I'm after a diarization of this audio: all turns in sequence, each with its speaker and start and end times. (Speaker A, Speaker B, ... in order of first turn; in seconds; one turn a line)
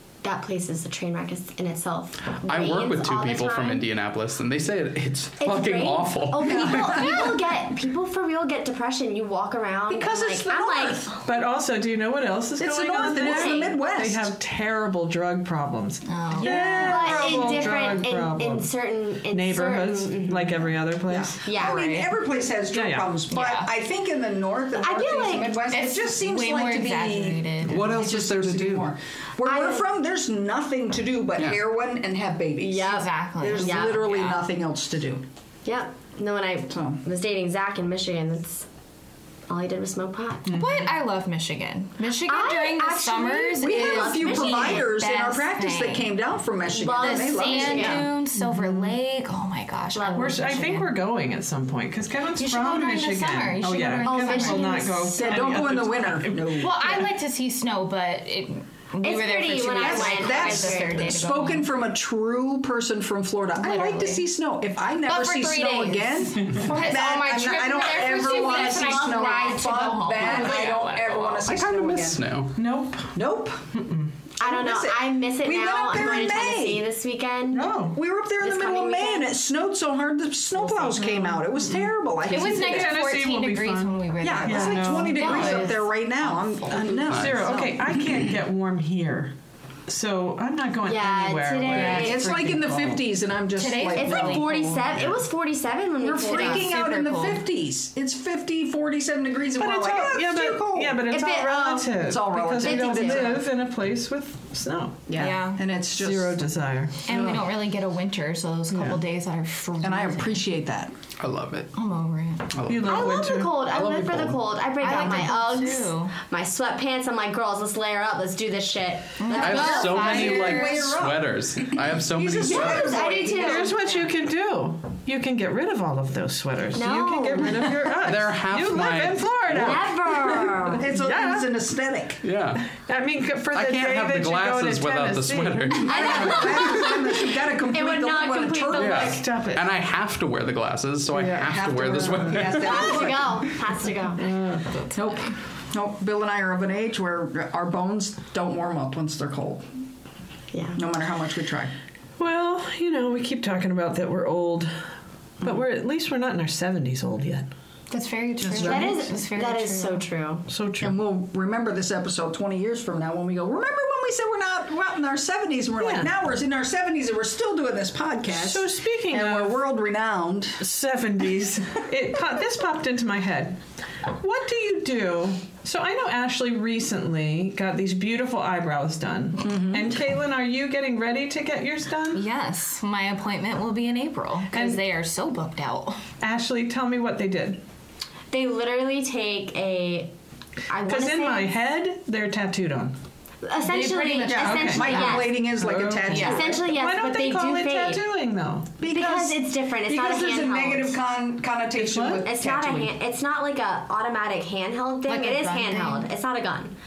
Speaker A: 0.2-3.8
Speaker B: 2.4-7.3
Speaker A: 5.4-11.2
Speaker C: 6.4-7.4
Speaker C: 9.9-11.1
Speaker D: 11.2-18.7
Speaker C: 12.6-14.3
Speaker A: 13.0-13.8
Speaker E: 16.1-17.6
Speaker A: 16.4-20.7
Speaker D: 19.3-21.4
Speaker C: 21.1-35.2
Speaker A: 21.4-21.9
Speaker E: 21.5-22.1
Speaker D: 22.7-23.1
Speaker E: 23.3-23.7
Speaker A: 24.8-25.6
Speaker E: 25.6-27.9
Speaker B: 27.6-28.9
Speaker A: 29.4-29.9
Speaker A: 32.6-34.1
Speaker E: 32.8-34.4
Speaker A: 35.6-38.6
Speaker C: 36.7-37.0
Speaker A: 39.5-40.6
Speaker D: 40.5-40.9
Speaker E: 40.5-46.1
Speaker A: 42.2-44.9
Speaker C: 43.4-48.1
Speaker A: 46.6-48.1
Speaker E: 46.9-50.9
Speaker D: 48.4-48.9
Speaker A: 49.9-50.8
Speaker D: 50.1-57.0
Speaker E: 52.4-55.1
Speaker A: 54.0-55.4
Speaker C: 55.1-56.9
Speaker E: 56.5-61.7
Speaker A: 59.0-61.2
Speaker C: 59.8-72.3
Speaker E: 63.5-64.3
Speaker E: 65.0-71.4
Speaker A: 67.9-69.6
Speaker A: 70.1-70.8
Speaker B: 71.2-72.5
Speaker D: 72.5-73.1
Speaker C: 73.1-73.6
Speaker D: 73.7-74.1
Speaker A: 74.4-77.7
Speaker C: 74.4-76.9
Speaker D: 77.5-78.0
Speaker C: 77.8-83.0
Speaker A: 78.4-79.3
Speaker A: 80.6-81.0
Speaker D: 81.6-85.5
Speaker E: 82.3-86.9
Speaker C: 84.2-88.0
Speaker A: 85.2-85.7
Speaker D: 86.7-89.3
Speaker B: 87.1-87.5
Speaker D: 89.9-93.0
Speaker A: 90.8-92.3
Speaker E: 91.7-92.1
Speaker C: 91.7-94.5
Speaker E: 93.5-95.0
Speaker A: 94.0-96.7
Speaker C: 96.0-103.4
Speaker E: 96.2-97.4
Speaker D: 99.6-105.1
Speaker A: 101.1-101.7
Speaker A: 102.6-103.4
Speaker C: 105.1-106.4
Speaker E: 105.2-105.6
Speaker D: 105.9-107.5
Speaker E: 107.0-110.4
Speaker D: 108.7-109.0
Speaker C: 109.8-110.9
Speaker B: 111.2-111.7
Speaker E: 111.7-112.5
Speaker B: 112.5-113.1
Speaker D: 112.7-113.6
Speaker A: 112.8-120.5
Speaker B: 113.6-114.4
Speaker E: 114.8-116.1
Speaker E: 119.2-120.9
Speaker C: 119.3-123.7
Speaker B: 119.3-123.0
Speaker D: 120.1-120.5
Speaker A: 122.4-124.0
Speaker D: 123.3-131.5
Speaker A: 126.7-127.7
Speaker B: 127.9-129.8
Speaker A: 129.5-130.8
Speaker C: 130.7-132.2
Speaker B: 132.2-132.6
Speaker D: 132.7-136.5
Speaker B: 133.5-136.7
Speaker A: 135.8-139.3
Speaker C: 135.8-139.2
Speaker B: 138.8-143.1
Speaker D: 139.0-139.7
Speaker D: 141.1-142.5
Speaker C: 141.3-143.4
Speaker A: 142.5-144.3
Speaker D: 144.2-144.7
Speaker E: 144.7-145.3
Speaker C: 144.9-149.6
Speaker A: 150.5-150.8
Speaker C: 150.7-151.7
Speaker D: 152.2-154.7
Speaker D: 155.4-157.5
Speaker E: 157.9-160.0
Speaker D: 158.4-159.1
Speaker C: 158.6-158.9
Speaker A: 158.6-160.5
Speaker D: 160.5-160.9
Speaker C: 160.8-170.6
Speaker D: 165.8-166.1
Speaker D: 168.3-169.6
Speaker D: 170.6-182.2
Speaker C: 179.4-179.9
Speaker E: 182.1-186.0
Speaker D: 184.5-184.8
Speaker D: 186.2-187.6
Speaker A: 188.3-190.1
Speaker A: 190.7-191.5
Speaker D: 190.8-192.9
Speaker A: 193.4-195.4
Speaker E: 193.6-195.3
Speaker C: 194.2-196.7
Speaker D: 194.4-198.8
Speaker E: 196.1-196.5
Speaker A: 196.2-198.0
Speaker C: 198.8-202.9
Speaker A: 198.8-201.0
Speaker D: 201.8-202.2
Speaker A: 202.2-206.8
Speaker E: 205.0-206.1